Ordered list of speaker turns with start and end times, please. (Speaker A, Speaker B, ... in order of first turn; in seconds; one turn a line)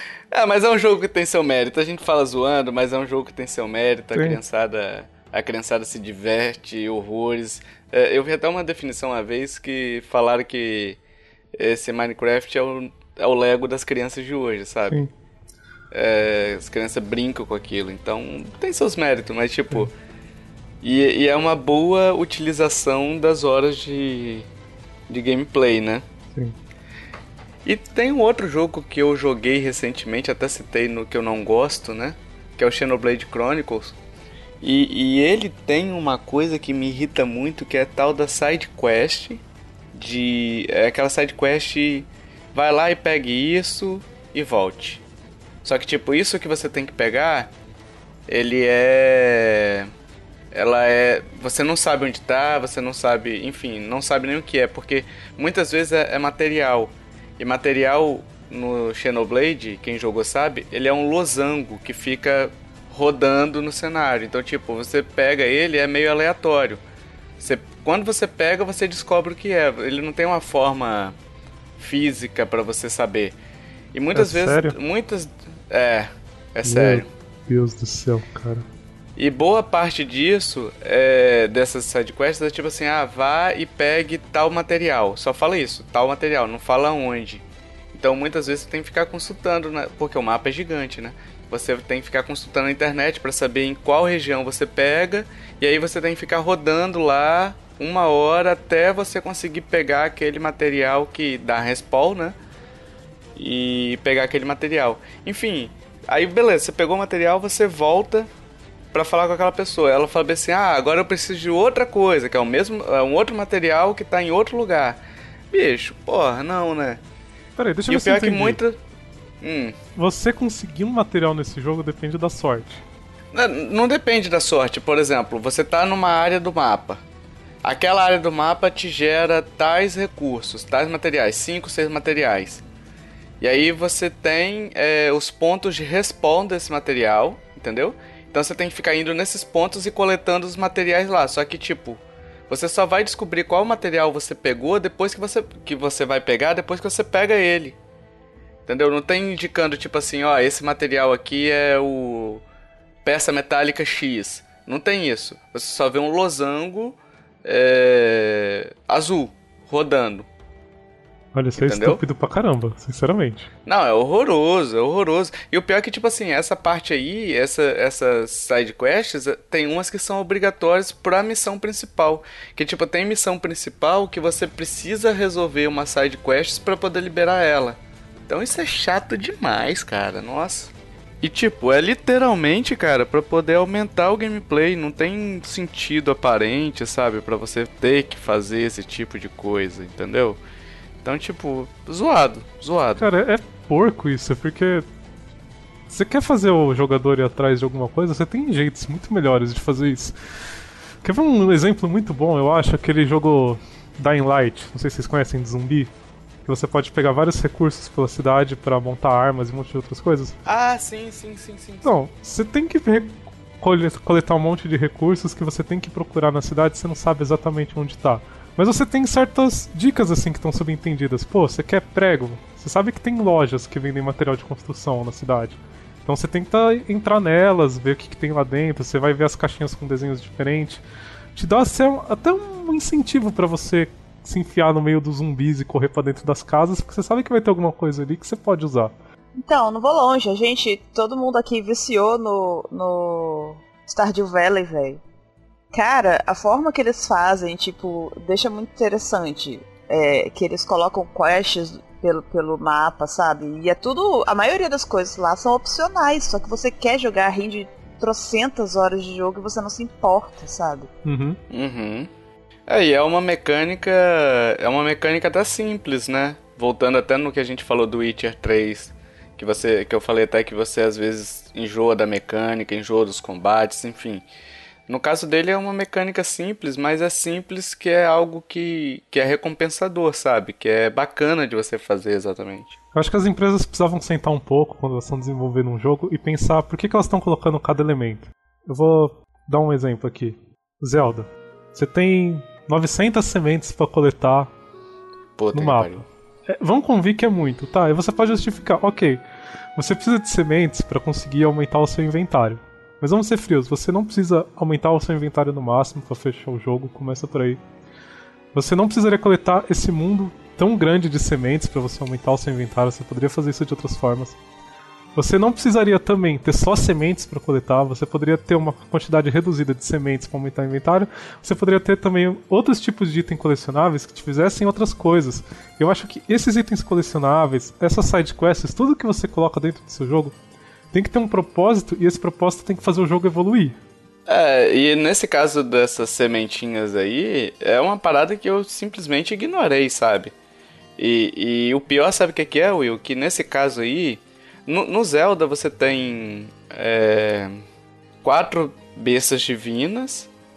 Speaker A: 0.3-11.0
Speaker B: 4.1-4.4
Speaker A: 11.6-15.0
Speaker A: 15.9-19.9
Speaker A: 20.8-24.5
Speaker A: 25.1-26.0
Speaker A: 27.6-34.0
Speaker A: 34.6-39.4
Speaker A: 39.9-45.0
Speaker A: 45.6-47.5
Speaker A: 48.3-49.9
Speaker A: 50.5-66.8
Speaker A: 67.4-71.2
Speaker A: 71.8-73.3
Speaker A: 73.9-77.1
Speaker B: 74.1-74.8
Speaker B: 76.6-78.7
Speaker A: 79.2-102.3
Speaker A: 103.3-108.3
Speaker A: 108.9-115.0
Speaker A: 115.5-117.0
Speaker B: 117.6-118.6
Speaker A: 117.9-118.8
Speaker A: 119.4-119.8
Speaker B: 120.0-122.8
Speaker A: 123.3-127.0
Speaker A: 127.6-132.6
Speaker A: 133.4-147.8
Speaker A: 148.7-152.4
Speaker A: 153.0-160.3
Speaker B: 161.3-163.5
Speaker A: 161.6-162.0
Speaker A: 163.7-190.4
Speaker A: 191.0-193.1
Speaker B: 193.0-194.8
Speaker B: 195.9-200.1
Speaker B: 201.0-205.9
Speaker B: 206.4-210.3
Speaker A: 210.4-211.9
Speaker B: 211.8-230.8
Speaker B: 231.3-238.9
Speaker C: 239.4-245.0
Speaker C: 245.7-260.9
Speaker B: 261.0-261.4
Speaker A: 261.5-262.1
Speaker A: 262.7-274.2
Speaker A: 274.9-282.8
Speaker B: 282.9-294.5
Speaker A: 295.4-296.0
Speaker B: 295.5-299.2
Speaker B: 299.8-307.6
Speaker B: 308.5-314.4
Speaker B: 315.1-330.3
Speaker B: 330.9-333.8
Speaker A: 334.3-340.3
Speaker A: 341.0-347.6
Speaker A: 348.2-350.3